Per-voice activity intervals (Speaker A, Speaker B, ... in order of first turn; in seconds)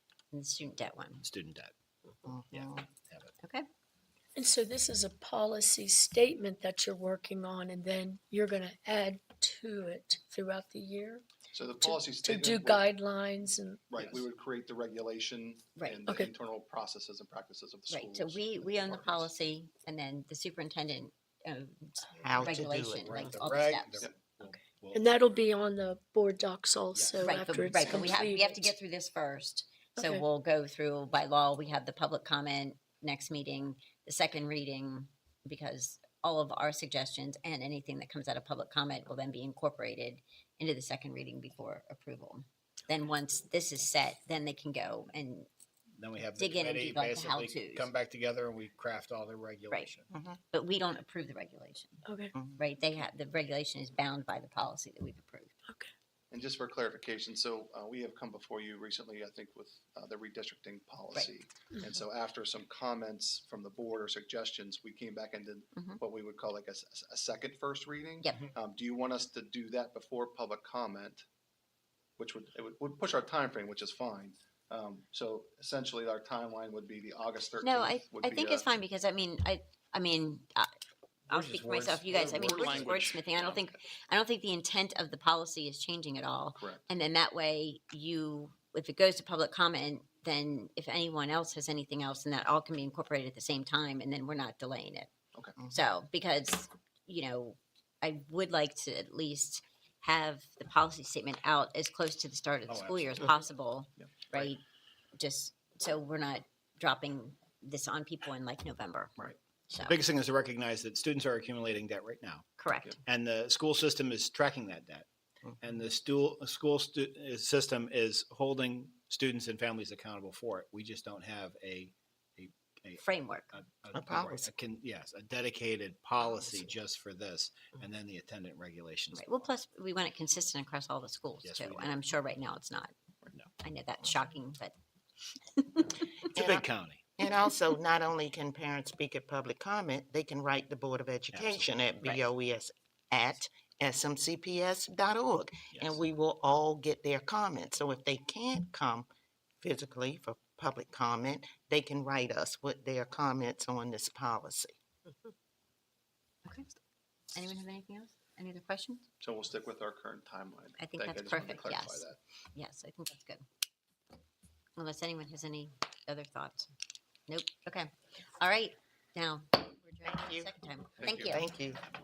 Speaker A: 0.3-1.2, 15.8-16.2, 17.9-24.0, 27.2-45.5, 46.4-47.9, 50.5-52.0, 52.6-55.5, 65.7-66.0, 77.6-80.7, 81.3-95.1, 95.7-104.6, 105.2-109.1, 109.7-110.0, 112.6-113.0, 123.0-123.5, 129.1-132.9, 133.6-134.7, 135.5-136.2, 157.3-159.1, 160.8-163.4, 164.8-166.7, 167.3-171.5
Speaker B: 1.2-1.7, 2.5-3.3, 23.0-25.1, 26.9-27.3, 46.0-50.1, 81.3-83.0, 102.7-103.5, 109.8-112.5, 113.0-115.1, 115.6-129.5, 131.4-131.9, 136.3-137.0, 141.3-142.2, 145.7-146.0
Speaker C: 2.2-2.9, 22.2-23.2, 50.1-50.4, 52.3-52.6, 123.9-124.5, 136.3-136.7, 137.2-149.1, 149.6-154.8, 170.0-170.5, 171.2-171.8
Speaker D: 4.4-11.2, 11.8-13.9, 24.5-28.7, 30.0-30.2, 52.1-52.3
Speaker E: 11.5-12.9, 13.9-19.3, 56.3-71.2, 72.2-78.7, 82.1-83.7, 86.5-86.8, 104.0-104.5, 159.2-162.2, 171.0-171.4